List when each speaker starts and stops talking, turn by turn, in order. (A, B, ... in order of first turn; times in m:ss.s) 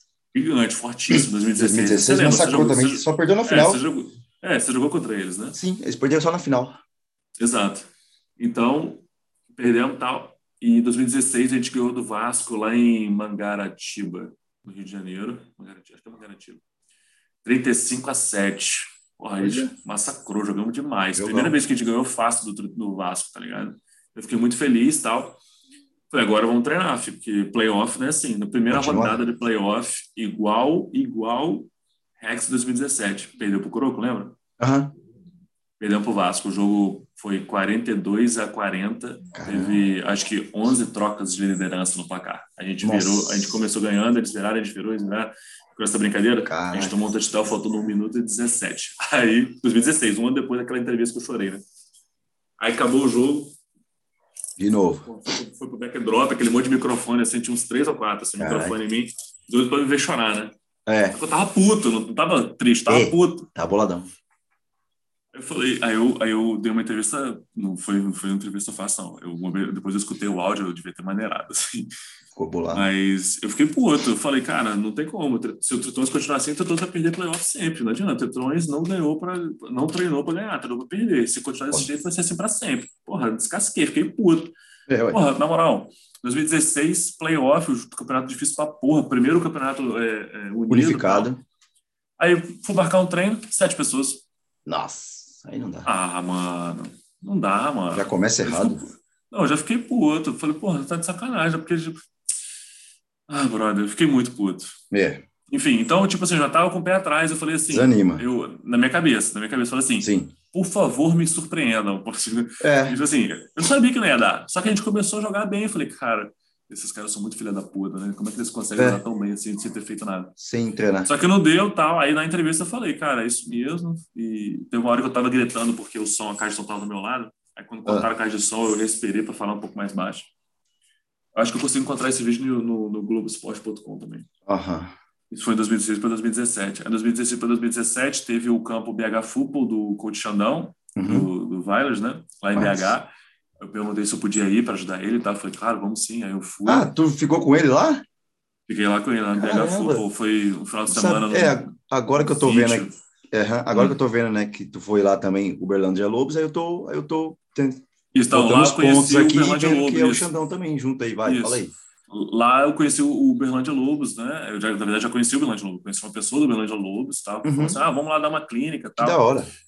0:00.3-0:05.6 A
0:01.1-0:03.8 B
0:05.5-0:06.8 B
0:07.4-0:16.6 A
0:17.4-0:25.4 A
0:19.4-0:19.7 B
0:21.2-0:21.5 B
0:26.1-0:34.4 A
0:28.7-0:29.2 B
0:34.6-0:34.9 B
0:35.8-0:51.6 A
0:39.3-0:39.8 B
0:42.8-0:43.6 B
0:46.5-0:47.0 B
0:52.6-0:53.5 A
0:54.6-0:55.0 B
0:55.0-1:00.5 A
0:58.4-0:58.8 B
1:00.8-1:01.2 B
1:01.1-1:03.5 A
1:02.9-1:04.1 B
1:05.3-1:11.9 A
1:12.3-1:12.9 B
1:12.7-1:24.5 A
1:24.9-1:25.2 B
1:25.1-1:31.3 A
1:30.7-1:31.4 B
1:32.2-1:34.2 A
1:34.6-1:35.9 B
1:35.8-1:42.0 A
1:37.9-1:38.8 B
1:43.3-1:44.8 A
1:44.9-1:45.2 B
1:45.5-2:00.4 A
1:47.7-1:48.2 B
1:50.0-1:50.3 B
1:52.6-1:53.0 B
2:00.4-2:01.1 B
2:01.0-2:10.3 A
2:11.3-2:14.3 A
2:14.4-2:14.9 B
2:15.3-2:26.9 A
2:21.0-2:21.3 B
2:22.5-2:22.9 B
2:26.6-2:28.0 B
2:28.7-2:33.0 A
2:29.4-2:30.0 B
2:30.9-2:41.7 B
2:38.1-2:40.3 A
2:41.2-2:49.2 A
2:47.4-2:47.8 B
2:49.0-2:49.5 B